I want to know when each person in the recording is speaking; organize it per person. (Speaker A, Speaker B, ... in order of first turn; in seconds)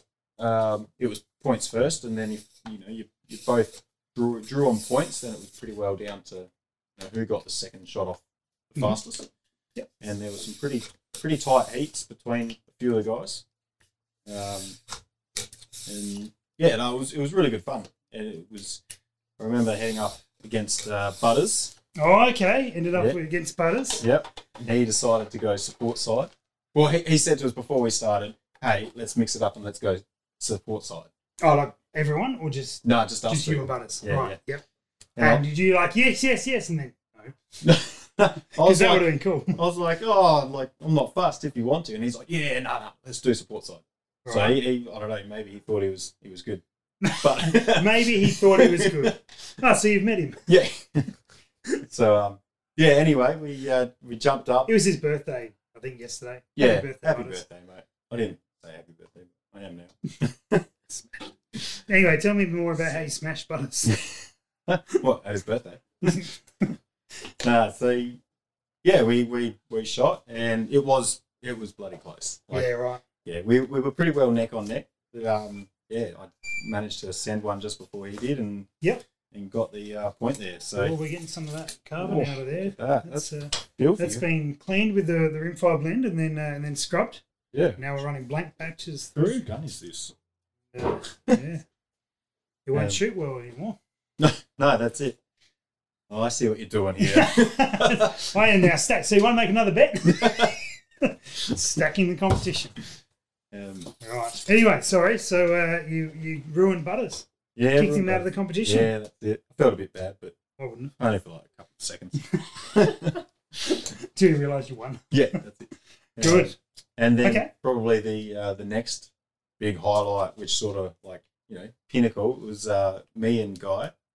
Speaker A: 0.4-9.3, 10.0-13.4, 14.2-14.8, 15.8-18.8, 19.4-21.7, 24.0-31.1, 32.8-34.4, 35.2-35.4, 37.6-46.6, 47.2-49.1, 50.5-51.1, 51.8-54.7, 56.5-60.6, 63.8-66.3, 67.4-68.2, 68.8-72.7, 73.2-78.7, 79.3-80.9, 82.0-84.2, 87.5-87.8, 89.1-90.1, 92.7-93.0, 94.2-95.2, 96.1-98.3, 100.1-100.5, 103.5-103.9, 107.5-110.3, 111.0-113.1, 115.1-123.9
Speaker B: 22.0-24.0, 31.4-34.6, 35.2-37.3, 38.5-39.6, 44.2-44.6, 47.0-50.4, 54.7-57.4, 60.9-64.0, 66.0-66.3, 72.5-73.0, 80.7-87.2, 87.8-89.5, 90.7-91.6, 92.7-93.8, 97.0-102.8, 104.0-108.9, 110.6-110.9, 112.3-113.0, 113.6-115.4, 116.2-116.5, 117.2-117.5